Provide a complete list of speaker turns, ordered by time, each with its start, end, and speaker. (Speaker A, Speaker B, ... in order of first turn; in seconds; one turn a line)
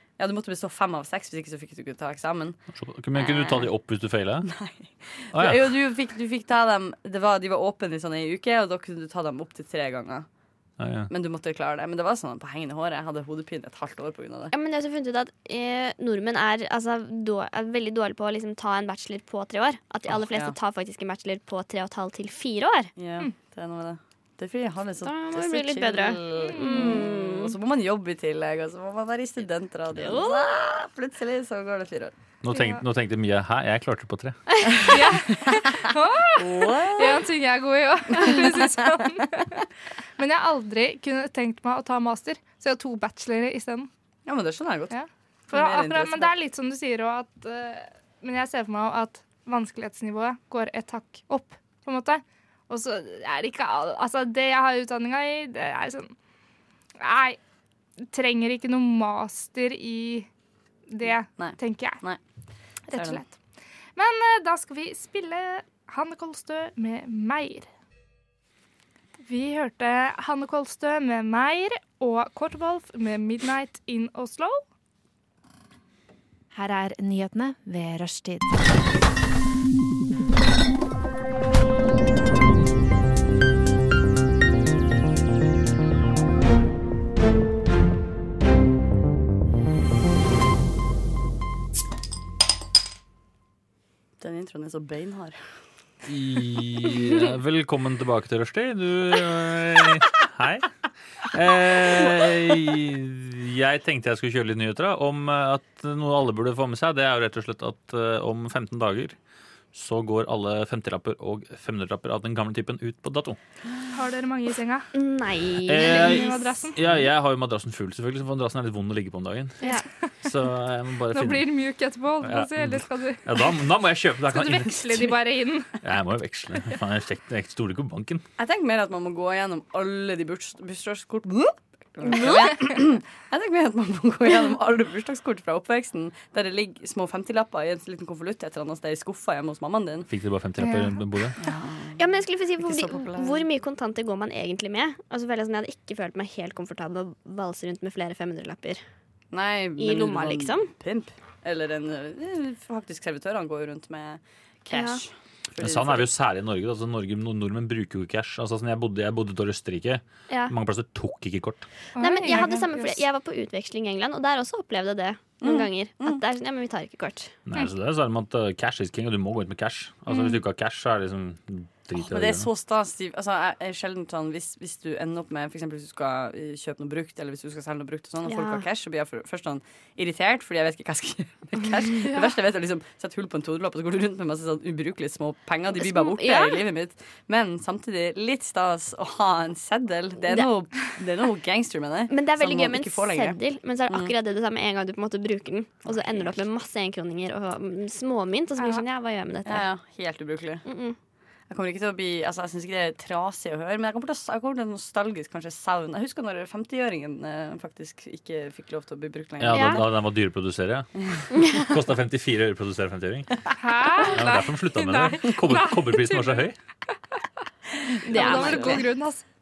Speaker A: 0.2-2.6
Speaker B: 2.8-4.5
Speaker A: 3.1-3.7
Speaker A: 4.4-10.3
Speaker B: 5.3-5.7
Speaker B: 10.8-11.1
Speaker A: 11.1-14.5
Speaker C: 14.5-22.9
Speaker A: 20.1-20.6
Speaker A: 23.0-32.1
Speaker C: 25.0-27.5
Speaker D: 26.4-27.0
Speaker C: 30.0-30.5
Speaker B: 32.4-34.5
Speaker D: 32.5-32.8
Speaker D: 34.8-39.6
Speaker A: 36.3-37.3
Speaker A: 38.1-38.8
Speaker D: 40.2-43.9
Speaker A: 44.2-44.9
Speaker D: 44.9-56.1
Speaker A: 45.5-46.3
Speaker D: 57.0-57.4
Speaker D: 58.1-60.3
Speaker D: 60.9-62.0
Speaker A: 61.4-62.2
Speaker D: 62.9-63.3
Speaker A: 62.9-63.2
Speaker D: 64.0-67.7
Speaker D: 69.2-74.6
Speaker E: 76.5-78.6
Speaker A: 94.2-95.4
Speaker B: 96.0-100.7
Speaker B: 101.3-109.2
Speaker B: 109.7-113.4
Speaker D: 113.9-114.9
Speaker C: 114.9-116.4
Speaker B: 115.6-119.6
Speaker D: 115.8-116.8
Speaker B: 120.2-121.5
Speaker D: 121.1-123.5
Speaker B: 122.2-125.2
Speaker D: 124.3-125.8
Speaker B: 125.8-128.2
Speaker A: 128.4-140.1
Speaker C: 132.1-132.6
Speaker B: 140.1-141.4
Speaker A: 141.4-143.4
Speaker C: 142.0-148.8
Speaker A: 149.3-156.1
Speaker C: 149.8-150.7
Speaker C: 154.7-155.0
Speaker B: 155.6-161.7
Speaker C: 160.3-160.5
Speaker D: 161.9-163.0
Speaker C: 162.0-167.3
Speaker A: 165.4-166.2
Speaker B: 167.4-172.5
Speaker C: 170.1-170.4
Speaker A: 172.0-194.1
Speaker C: 178.3-178.6
Speaker C: 185.8-186.7
Speaker C: 192.1-199.7
Speaker A: 195.8-196.3
Speaker D: 198.6-198.8
Speaker A: 199.4-200.6
Speaker C: 200.6-201.0
Speaker A: 201.5-209.8
Speaker B: 209.4-213.4
Speaker C: 209.5-209.8
Speaker D: 213.6-216.5
Speaker B: 214.0-216.5
Speaker A: 217.9-218.8
Speaker D: 218.0-219.2
Speaker C: 218.1-218.8